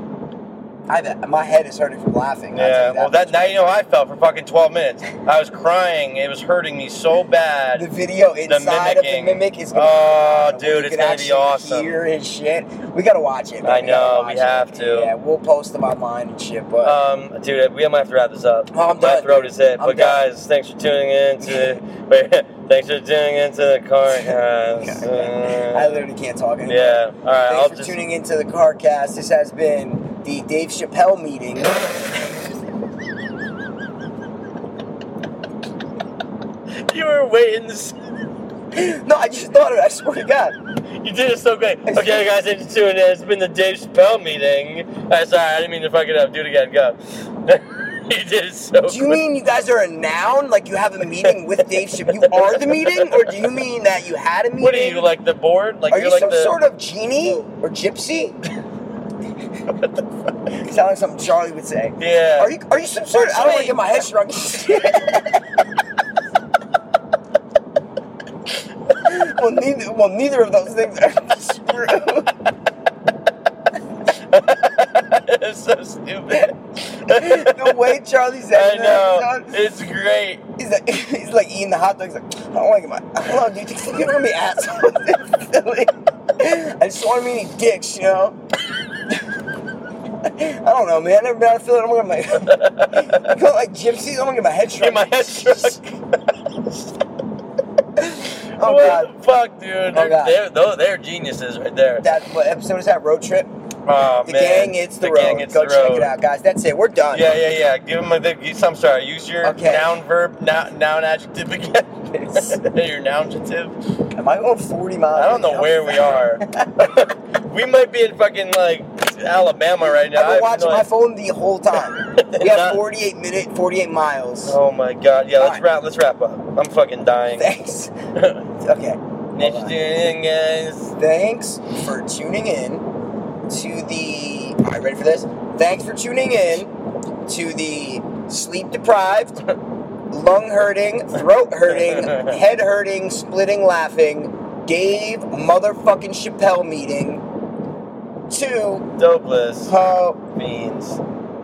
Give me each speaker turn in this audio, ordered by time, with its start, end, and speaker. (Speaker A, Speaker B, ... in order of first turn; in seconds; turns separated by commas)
Speaker A: 0.9-3.6, Speaker B: 2.5-7.9, Speaker A: 7.7-17.0, Speaker B: 8.5-12.0, Speaker B: 13.6-15.1, Speaker B: 16.8-26.0, Speaker A: 18.7-20.2, Speaker A: 21.4-21.7, Speaker A: 24.8-31.9, Speaker B: 26.7-27.9, Speaker B: 36.8-38.0, Speaker A: 38.7-40.6, Speaker B: 41.0-49.2, Speaker A: 41.9-42.3, Speaker A: 48.9-55.1, Speaker B: 51.2-53.4, Speaker B: 54.6-56.5, Speaker A: 55.9-58.4, Speaker A: 60.5-65.4, Speaker B: 62.0-62.5, Speaker B: 63.1-64.0, Speaker A: 68.9-72.3, Speaker B: 74.1-78.0, Speaker A: 77.1-79.6, Speaker B: 78.5-80.4, Speaker A: 80.6-88.4, Speaker A: 89.1-89.4, Speaker A: 90.2-95.8, Speaker B: 92.4-93.3, Speaker B: 94.8-96.8, Speaker A: 98.0-99.1, Speaker B: 98.6-102.1, Speaker A: 99.9-100.4, Speaker A: 102.0-103.5, Speaker B: 103.8-106.1, Speaker A: 104.2-107.3, Speaker B: 107.1-113.7, Speaker A: 109.4-110.0, Speaker A: 112.2-112.6, Speaker A: 114.1-116.8, Speaker B: 115.1-120.9, Speaker A: 120.1-124.6, Speaker B: 121.7-122.8, Speaker B: 124.4-127.5, Speaker A: 125.4-125.6, Speaker A: 127.3-127.9, Speaker B: 128.1-128.5, Speaker A: 128.6-130.0, Speaker B: 129.3-130.9, Speaker A: 131.0-132.9, Speaker A: 133.5-136.7, Speaker A: 137.2-139.4, Speaker A: 140.1-147.2, Speaker B: 141.7-142.3, Speaker A: 148.3-148.9, Speaker B: 149.0-149.8, Speaker A: 149.7-150.2, Speaker B: 150.3-151.0